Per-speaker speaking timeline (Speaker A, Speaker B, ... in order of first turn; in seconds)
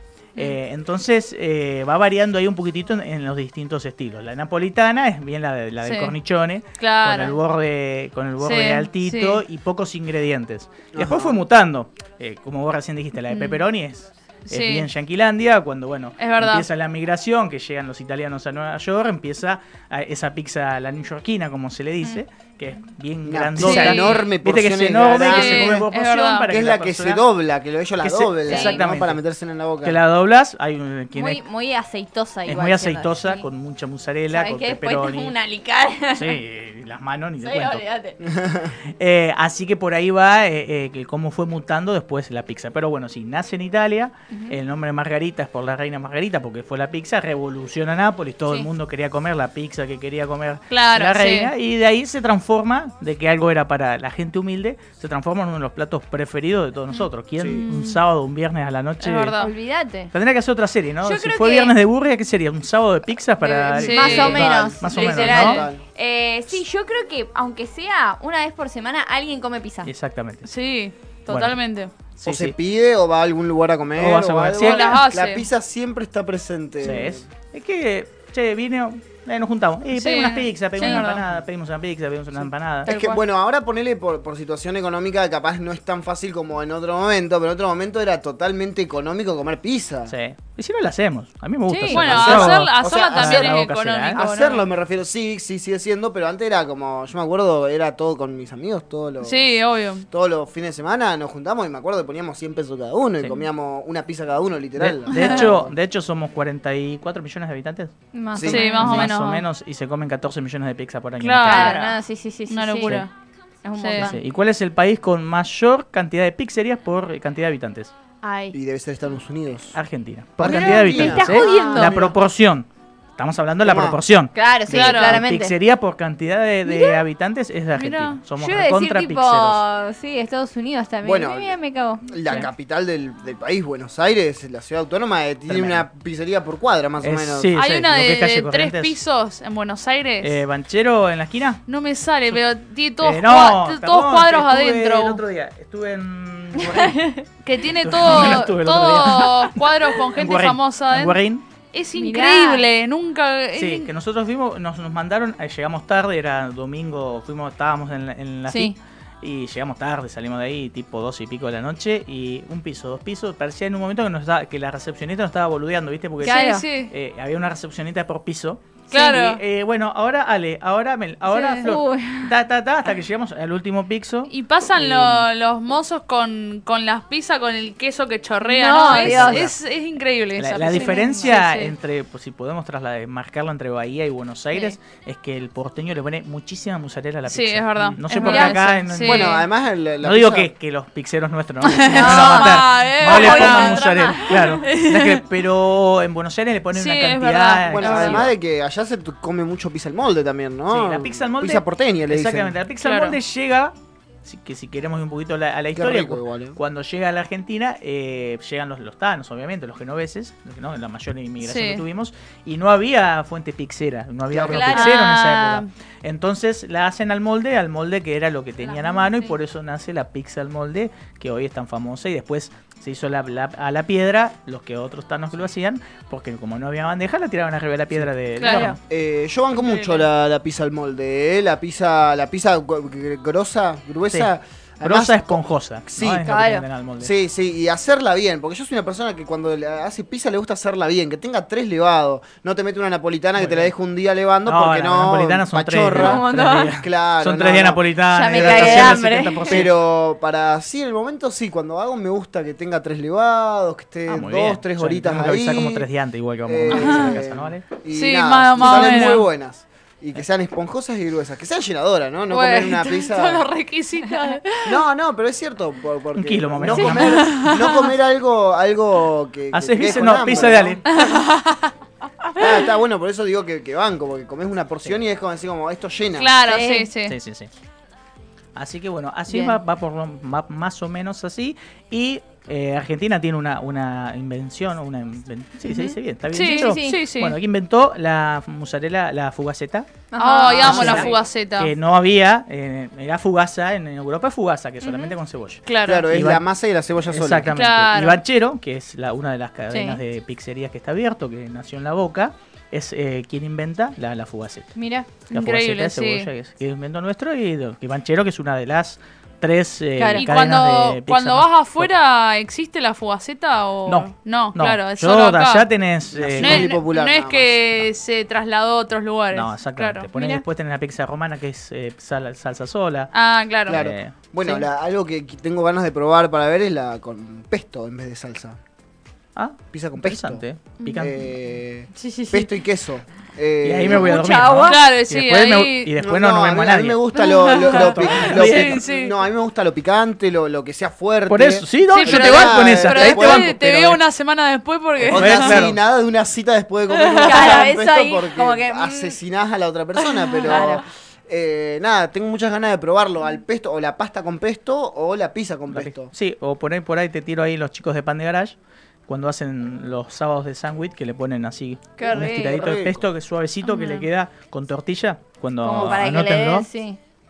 Speaker A: 0.3-27.2, 28.0-29.2, 29.8-31.4, 32.5-35.3, 36.1-37.8, 39.0-59.4, 60.1-65.6, 69.8-70.5, 71.3-71.6, 72.1-72.5, 74.0-75.0, 76.8-82.9, 90.1-94.2, 104.8-107.9, 108.5-111.8, 114.0-117.9, 119.7-129.6, 135.5-135.8, 137.0-139.0, 140.2-141.6, 143.0-147.1, 147.8-151.4, 153.6-175.3, 178.8-179.5, 180.4-189.4, 190.0-198.3, 200.7-203.7, 204.2-228.8, 234.8-237.1, 243.4-243.7, 244.4-249.7, 254.1-257.6, 266.1-267.4, 269.5-270.8, 277.1-277.5, 278.5-289.9, 290.5-296.4, 297.0-304.7, 305.3-311.9, 313.9-316.7, 319.3-323.1, 323.7-324.1, 329.4-331.3, 333.6-337.0, 337.6-338.8, 341.3-344.0, 345.0-345.8, 355.7-358.6, 359.1-366.6
Speaker B: 5.8-6.1, 6.8-7.4, 8.4-9.4, 13.3-13.6, 14.5-14.9, 16.2-16.6, 23.6-24.3, 25.2-26.5, 50.7-51.5, 57.5-58.0, 59.0-59.5, 63.4-65.7, 70.4-71.9, 74.6-75.5, 79.9-81.2, 91.9-94.6, 99.2-100.0, 105.1-105.5, 108.5-109.4, 111.2-113.1, 113.8-114.1, 121.3-121.8, 124.7-125.2, 127.7-128.2, 137.5-140.4, 141.7-145.2, 147.4-151.2, 151.7-153.9, 166.2-166.9, 168.9-169.4, 171.3-171.7, 174.3-181.7, 187.3-189.4, 191.6-195.2, 196.7-198.3, 202.8-203.2, 211.4-211.8, 214.6-215.7, 228.4-228.7, 229.6-230.0, 256.7-257.2, 257.9-259.2, 262.3-264.8, 266.9-267.9, 270.9-271.7, 276.1-277.1, 286.3-287.4, 290.2-291.7, 295.6-296.1, 297.5-298.2, 305.3-306.3, 310.1-315.6, 316.4-320.1, 323.1-323.8, 334.6-335.9, 337.7-339.1, 341.9-345.6, 347.0-347.6, 350.5-350.7, 363.6-364.1
Speaker C: 10.9-11.4, 23.2-25.9, 26.5-30.0, 38.2-38.7, 57.4-57.6, 64.2-65.8, 72.2-77.2, 82.8-90.1, 92.0-99.5, 100.1-105.7, 108.3-108.7, 118.5-119.8, 120.4-122.2, 123.6-124.0, 131.0-131.6, 132.1-137.5, 189.0-190.5, 197.7-202.5, 205.7-206.6, 214.3-214.9, 228.9-236.3, 237.0-255.8, 256.4-263.5, 264.6-270.9, 272.4-276.3, 290.6-291.1, 295.8-297.5, 316.1-317.6, 323.7-328.6, 329.7-330.4, 331.0-334.2, 336.0-343.6, 345.1-356.1, 362.1-363.0
Speaker D: 28.5-28.8, 31.1-33.5, 34.3-36.4, 37.4-38.2, 44.3-44.5, 59.4-60.1, 61.0-61.7, 63.4-69.9, 80.8-81.0, 82.9-83.2, 91.7-92.0, 108.1-109.3, 111.4-113.0, 113.6-114.2, 118.2-118.5, 120.4-122.0, 124.3-125.5, 126.7-127.0, 128.4-132.4, 146.6-147.2, 151.9-152.6, 158.5-158.8, 166.2-166.6, 171.3-172.3, 178.4-179.5, 180.7-181.3, 188.1-188.8, 191.9-194.6, 214.4-214.8, 218.7-219.3, 228.4-228.8, 236.2-236.6, 245.9-246.7, 248.1-249.6, 258.6-259.1, 266.7-267.2, 276.4-276.9, 279.3-279.6, 285.7-287.0, 290.1-291.1, 294.8-295.1, 299.7-300.0, 304.7-305.1, 310.0-310.3, 320.1-320.4, 331.9-332.5, 333.9-334.8, 337.1-337.8, 347.1-349.2, 350.3-350.8, 362.0-362.7, 365.6-367.0